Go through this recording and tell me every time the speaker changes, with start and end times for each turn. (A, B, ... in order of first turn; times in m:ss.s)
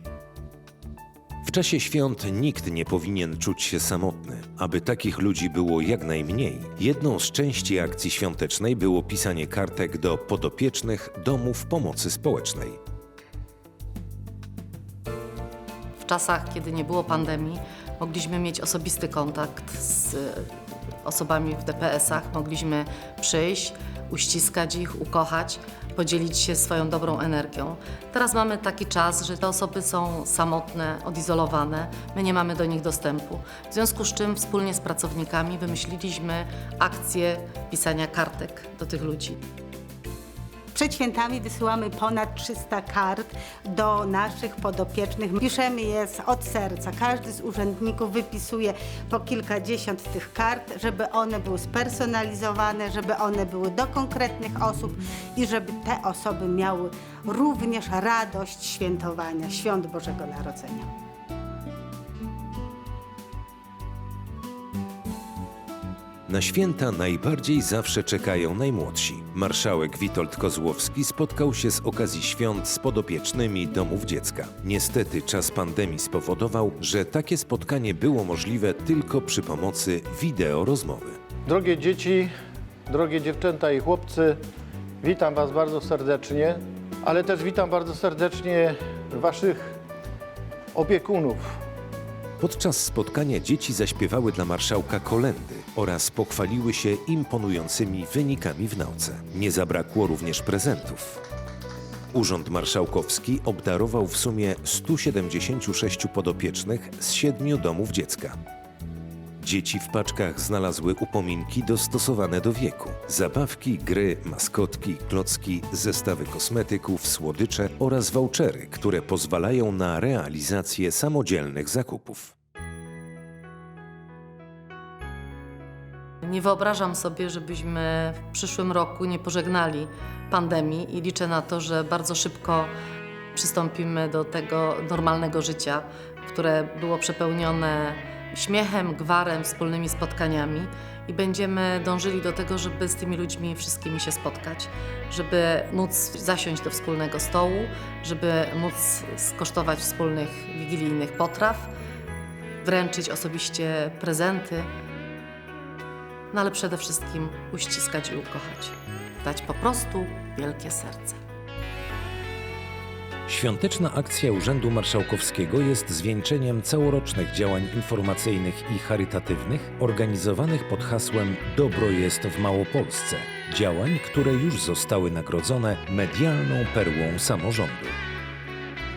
0:01.4-0:12.8 A
0:16.0-0:20.5 B
0:21.0-0:39.4 B
0:40.7-1:00.9 C
1:06.3-1:21.2 A
1:21.4-1:22.3 D
1:22.9-1:24.4 D
1:25.0-1:29.8 D
1:30.7-1:31.6 D
1:32.4-1:41.2 A
1:42.1-1:48.4 A
1:49.4-2:02.3 A
2:06.2-2:12.7 B
2:13.3-2:31.7 B
2:32.6-2:34.7 B
2:36.3-2:41.2 B
2:43.3-2:58.0 A